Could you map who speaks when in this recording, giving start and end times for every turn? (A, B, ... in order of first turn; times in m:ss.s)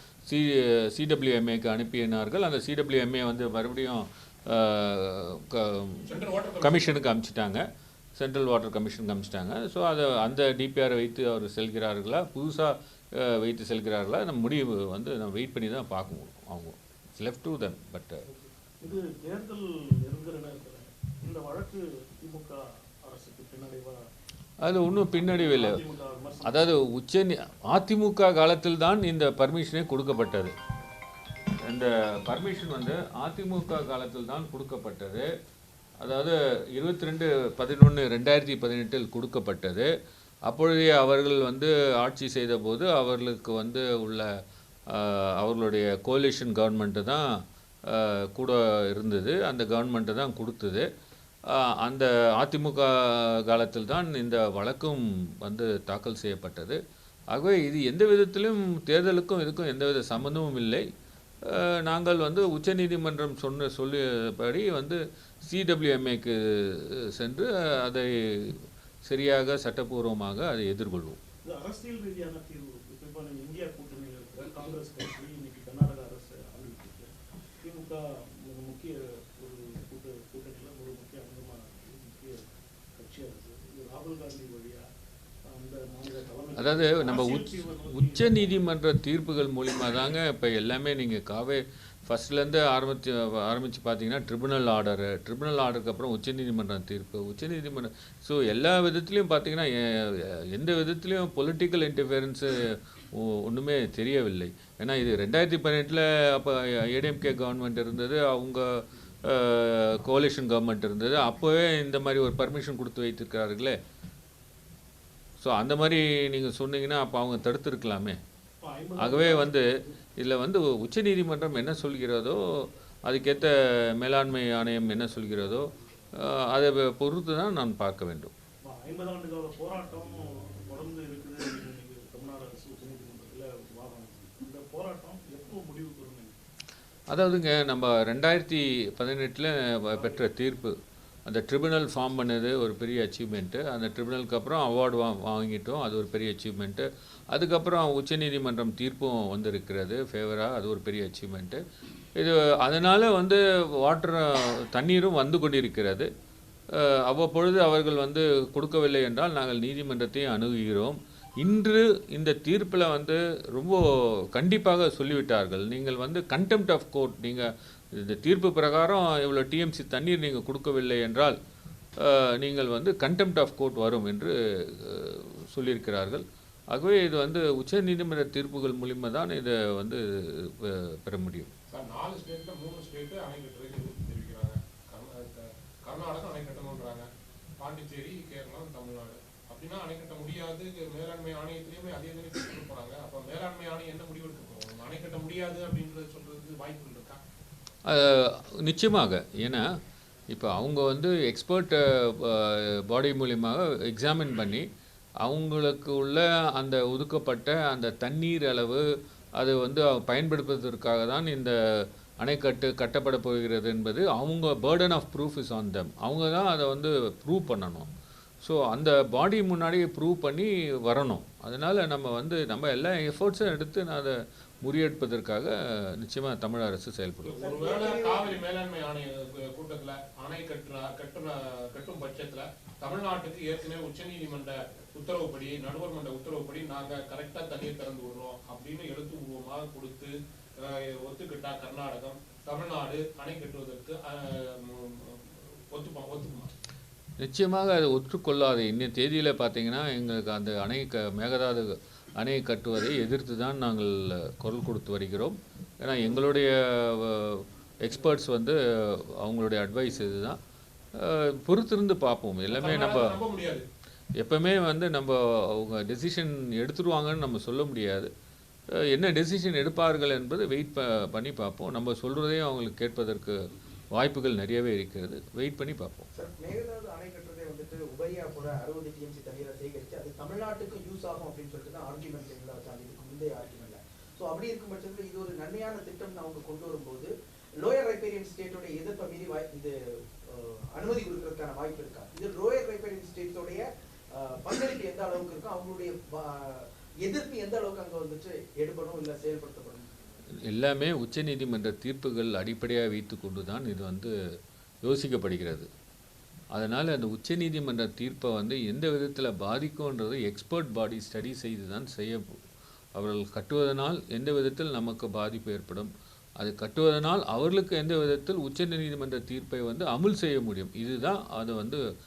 0:00.3-0:06.0 A
0:06.0-0:07.0 B
0:06.6-0:18.2 A
0:18.3-0:24.0 C
0:24.6-0:25.8 A
0:25.1-0:26.8 C
0:26.4-0:30.5 A
0:31.6-0:35.3 A
0:36.0-0:39.9 A
0:40.5-0:44.3 A
0:44.9-0:47.2 A
0:47.9-0:50.8 A
0:51.5-0:56.8 A
0:57.3-1:00.8 A
1:01.4-1:11.2 A
1:11.4-1:24.8 C
1:25.4-1:28.6 C
1:26.6-1:53.8 A
1:55.4-1:58.2 A
1:58.6-2:00.0 C
1:59.0-1:59.7 A
2:00.2-2:05.7 A
2:04.9-2:05.6 C
2:06.2-2:08.3 A
2:08.6-2:16.4 C
2:17.1-2:20.7 A
2:19.9-2:20.3 C
2:21.3-2:31.6 A
2:32.2-2:36.1 A
2:36.7-2:51.4 A
2:52.0-3:01.5 A
3:01.7-3:07.0 B
3:07.6-3:17.2 B
3:17.9-3:19.7 A
3:20.3-3:24.6 A
3:25.2-3:28.8 A
3:29.4-3:37.9 A
3:38.4-3:47.3 A
3:47.2-4:06.5 B
3:47.4-3:48.4 D
4:07.2-4:20.4 A
4:21.0-4:23.2 A
4:22.5-4:23.6 B
4:24.2-4:28.1 A
4:28.8-4:33.4 A
4:33.9-4:36.1 A
4:36.1-4:49.7 D
4:50.3-4:53.6 D
4:54.2-4:59.9 D
5:00.4-5:04.1 A
5:04.8-5:05.7 A
5:06.5-5:12.2 A
5:12.9-5:21.8 A